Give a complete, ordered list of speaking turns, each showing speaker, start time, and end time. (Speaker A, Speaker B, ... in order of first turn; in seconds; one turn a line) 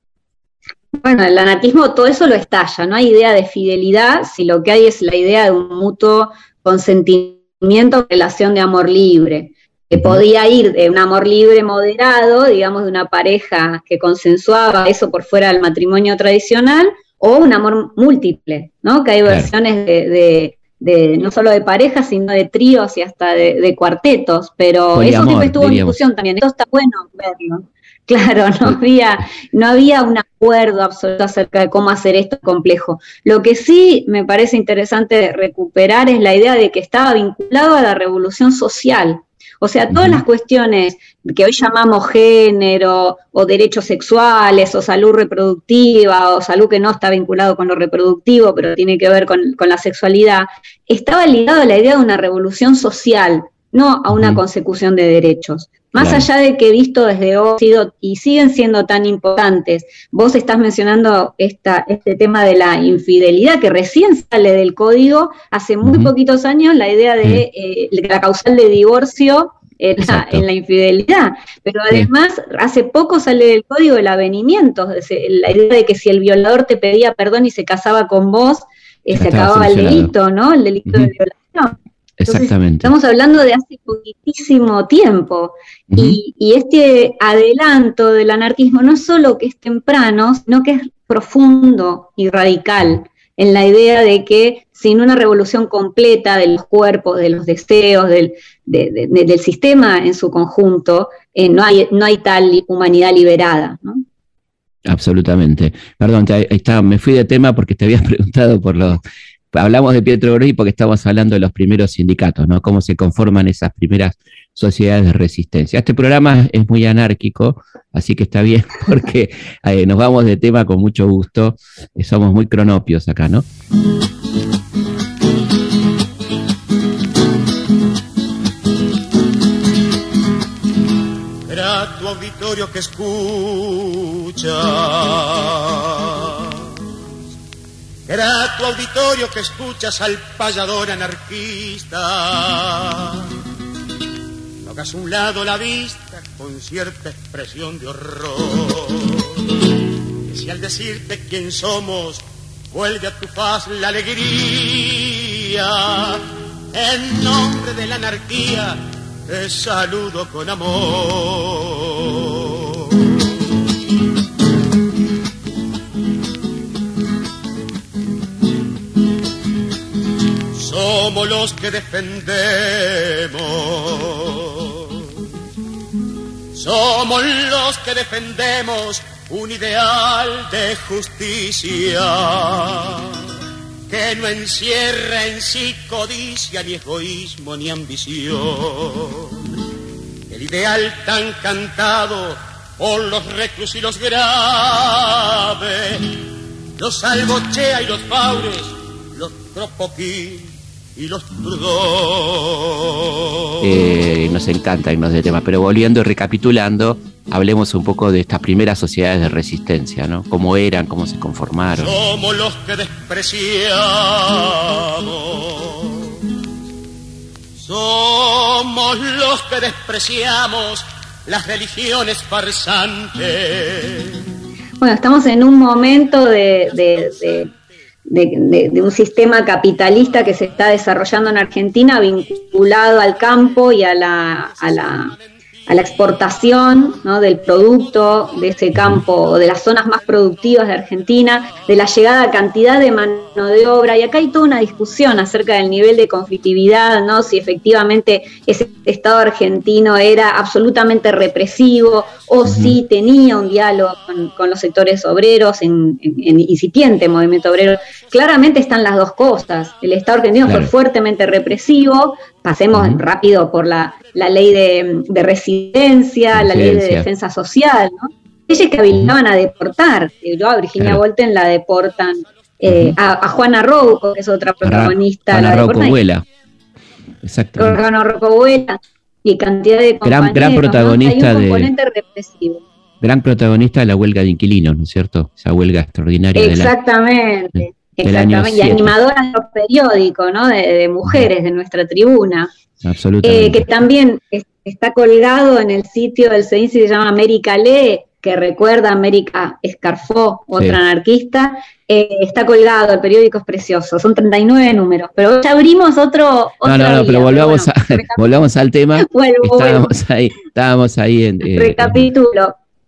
Speaker A: 1.0-104.0
Speaker B: 9.9-10.2
Speaker B: 24.9-26.0
Speaker B: 39.9-40.2
Speaker B: 54.1-54.4
Speaker B: 56.0-56.3
Speaker B: 65.8-66.1
Speaker B: 70.0-70.5
Speaker B: 79.2-80.1
Speaker B: 82.2-82.9
Speaker B: 85.9-86.2
Speaker B: 104.8-123.5
Speaker C: 131.5-136.6
Speaker C: 138.1-143.3
Speaker C: 144.6-149.3
Speaker C: 150.3-162.8
Speaker C: 170.6-174.9
Speaker C: 176.5-183.2
Speaker C: 183.9-189.4
Speaker C: 190.3-196.2
Speaker C: 196.8-203.1
Speaker B: 203.6-211.9
Speaker C: 211.8-216.2
Speaker C: 217.6-224.2
Speaker A: 224.8-227.5
Speaker C: 227.0-227.6
Speaker A: 228.1-235.1
Speaker C: 234.8-235.2
Speaker A: 235.7-276.0
Speaker B: 238.8-239.0
Speaker B: 252.4-252.8
Speaker B: 260.4-260.7
Speaker B: 262.7-263.0
Speaker B: 266.3-267.1
Speaker B: 272.7-273.0
Speaker B: 274.6-276.2
Speaker B: 277.2-277.8
Speaker A: 277.6-282.6
Speaker B: 280.0-281.7
Speaker B: 283.0-286.7
Speaker A: 286.4-292.5
Speaker B: 288.0-288.9
Speaker B: 292.8-293.7
Speaker A: 293.2-308.3
Speaker B: 306.6-312.1
Speaker A: 309.0-309.9
Speaker A: 311.4-312.6